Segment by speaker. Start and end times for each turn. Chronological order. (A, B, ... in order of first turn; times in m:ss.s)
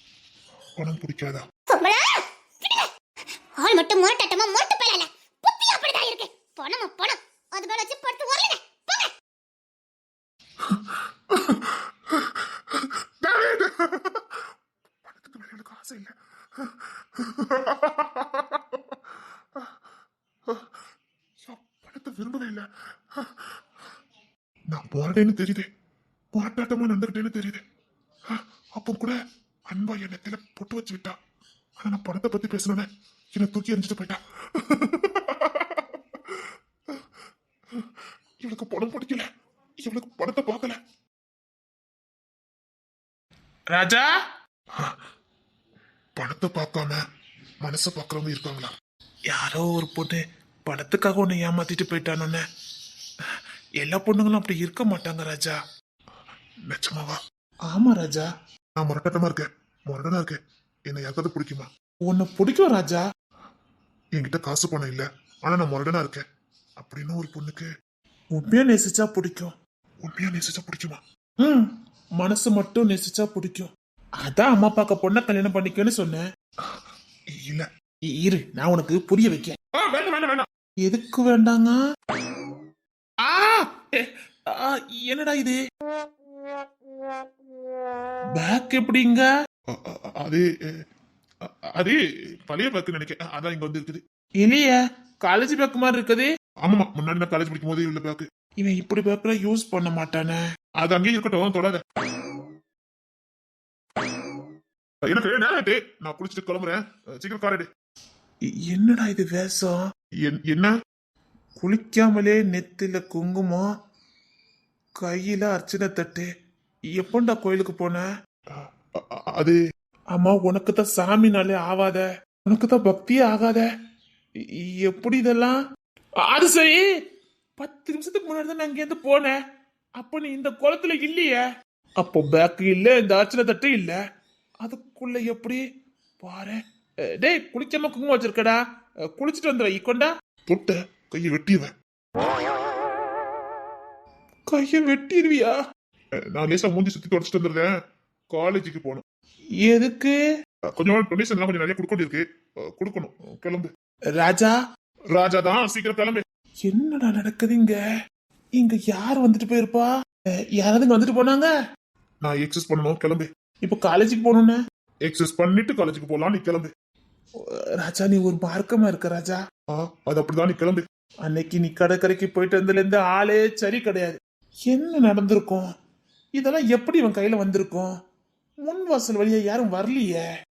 0:00.8-0:01.4 A
0:01.7-0:02.9 B
0:03.6-0:09.1 B
0:10.6-0:14.5 A
0:15.0-0:19.8 A
0:20.5-0:20.8 A
0:21.4-0:23.6 A
0:24.7-0:25.7 A
0:26.3-0:27.6 A
0:28.3-0:31.2 A
0:31.8-0:37.1 A
0:37.7-0:39.3 A
0:39.8-0:40.8 A
0:43.7-0:44.1 C
0:46.2-0:47.0 A
0:47.6-0:48.7 A
0:49.3-0:52.4 C
0:53.3-0:55.6 C
0:56.7-0:57.2 A
0:57.7-0:58.3 C
0:58.8-1:01.7 A
1:02.1-1:03.0 C
1:04.2-1:06.2 A
1:06.8-1:07.7 A
1:08.4-1:09.5 C
1:10.0-1:11.0 A
1:11.4-1:13.7 C
1:14.2-1:16.2 C
1:17.3-1:17.7 A
1:18.1-1:19.6 C
1:19.7-1:20.5 A
1:20.8-1:21.8 C
1:23.2-1:25.6 C
1:28.4-1:29.3 C
1:29.7-1:30.7 A
1:31.4-1:34.0 A
1:34.4-1:36.3 C
1:36.6-1:38.2 A
1:38.6-1:40.4 C
1:40.8-1:41.8 A
1:45.1-1:47.7 A
1:48.5-1:49.8 C
1:50.2-1:50.7 A
1:51.6-1:53.7 C
1:55.0-1:56.3 C
1:56.9-1:58.0 C
1:58.5-1:59.6 A
2:00.1-2:03.7 C
2:04.4-2:05.6 C
2:06.2-2:06.8 C
2:07.6-2:09.4 C
2:10.0-2:11.4 C
2:12.0-2:14.0 C
2:14.6-2:15.6 C
2:16.2-2:18.6 C
2:19.2-2:20.1 C
2:20.5-2:21.7 A
2:24.5-2:25.6 C
2:26.3-2:27.7 A
2:28.3-2:29.0 A
2:29.6-2:30.2 C
2:30.8-2:33.7 A
2:34.2-2:34.6 C
2:35.1-2:36.2 A
2:36.6-2:37.8 C
2:38.6-2:39.9 C
2:40.6-2:41.5 C
2:42.2-2:43.3 A
2:43.6-2:44.6 C
2:45.0-2:46.7 A
2:47.4-2:49.4 C
2:49.7-2:50.8 A
2:51.3-2:55.7 C
2:56.4-2:57.9 C
2:58.6-3:00.2 C